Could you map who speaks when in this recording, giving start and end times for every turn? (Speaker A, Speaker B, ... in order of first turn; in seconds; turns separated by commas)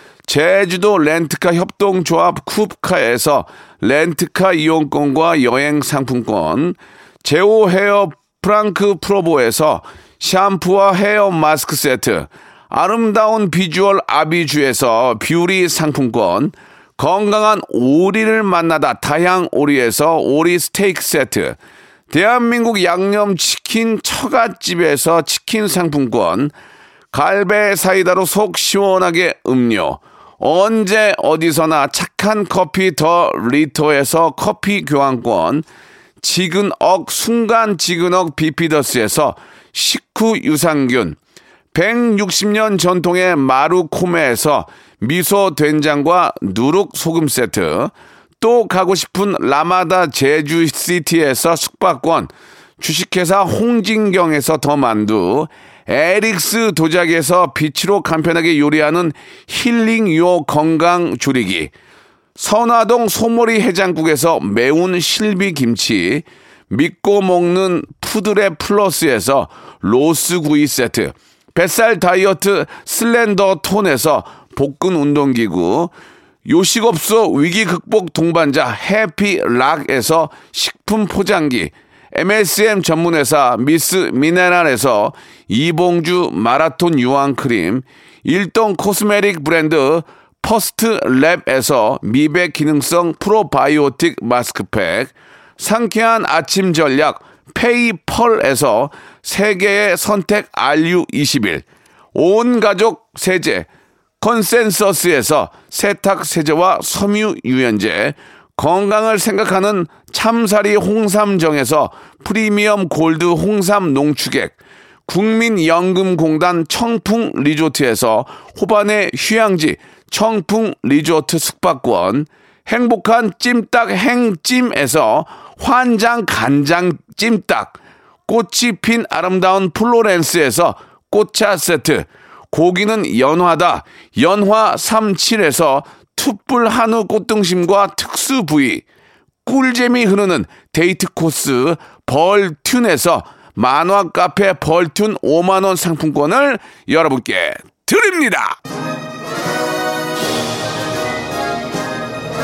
Speaker A: 0.3-21.6, Speaker A: 22.1-26.5, Speaker A: 27.1-35.7, Speaker A: 36.2-41.2, Speaker A: 41.7-61.7, Speaker A: 62.4-75.9, Speaker A: 76.5-103.7, Speaker A: 104.2-138.8, Speaker A: 139.4-148.6